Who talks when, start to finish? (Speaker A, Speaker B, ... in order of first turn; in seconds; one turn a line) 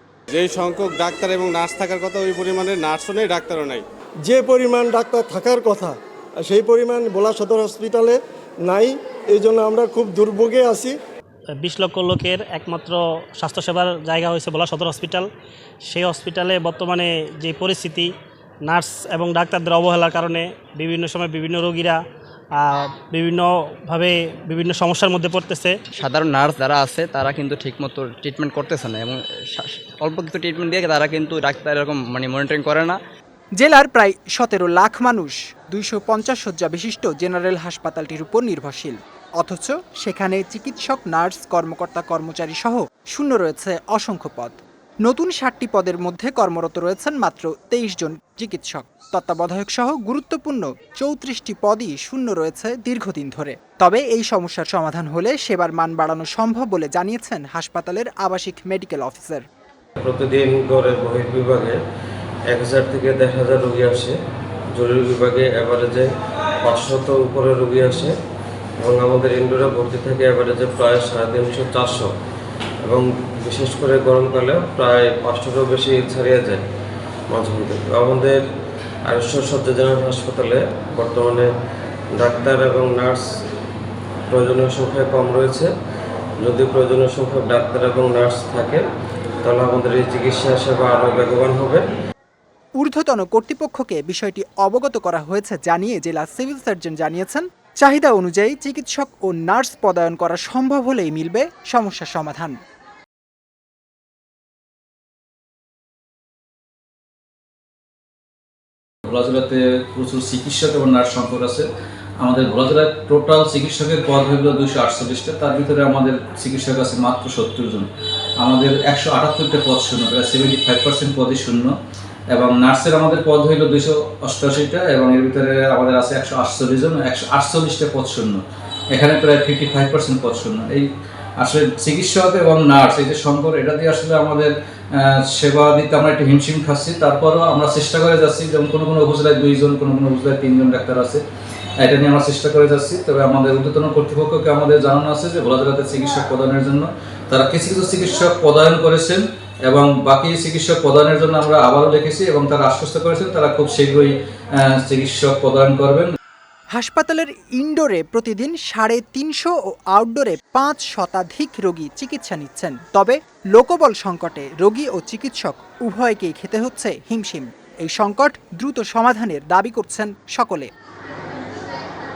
Speaker A: 0.3-3.8
Speaker B: 4.2-11.0
Speaker C: 11.6-15.3
Speaker C: 15.9-18.1
Speaker C: 18.6-22.0
Speaker C: 22.6-25.8
Speaker D: 25.9-33.0
Speaker E: 33.6-59.4
Speaker F: 60.0-61.8
Speaker F: 62.5-64.1
Speaker F: 64.8-66.1
Speaker F: 66.6-68.1
Speaker F: 68.8-72.1
Speaker F: 72.9-76.6
Speaker F: 77.3-78.4
Speaker F: 79.1-81.5
Speaker F: 82.2-83.3
Speaker F: 84.3-85.7
Speaker F: 86.4-88.8
Speaker F: 89.4-91.9
Speaker E: 92.8-102.5
Speaker G: 109.1-111.7
Speaker G: 112.2-117.9
Speaker G: 118.4-121.7
Speaker G: 122.3-128.4
Speaker G: 128.9-130.8
Speaker G: 131.4-141.2
Speaker G: 141.8-154.1
Speaker G: 154.8-156.1
Speaker E: 156.7-170.7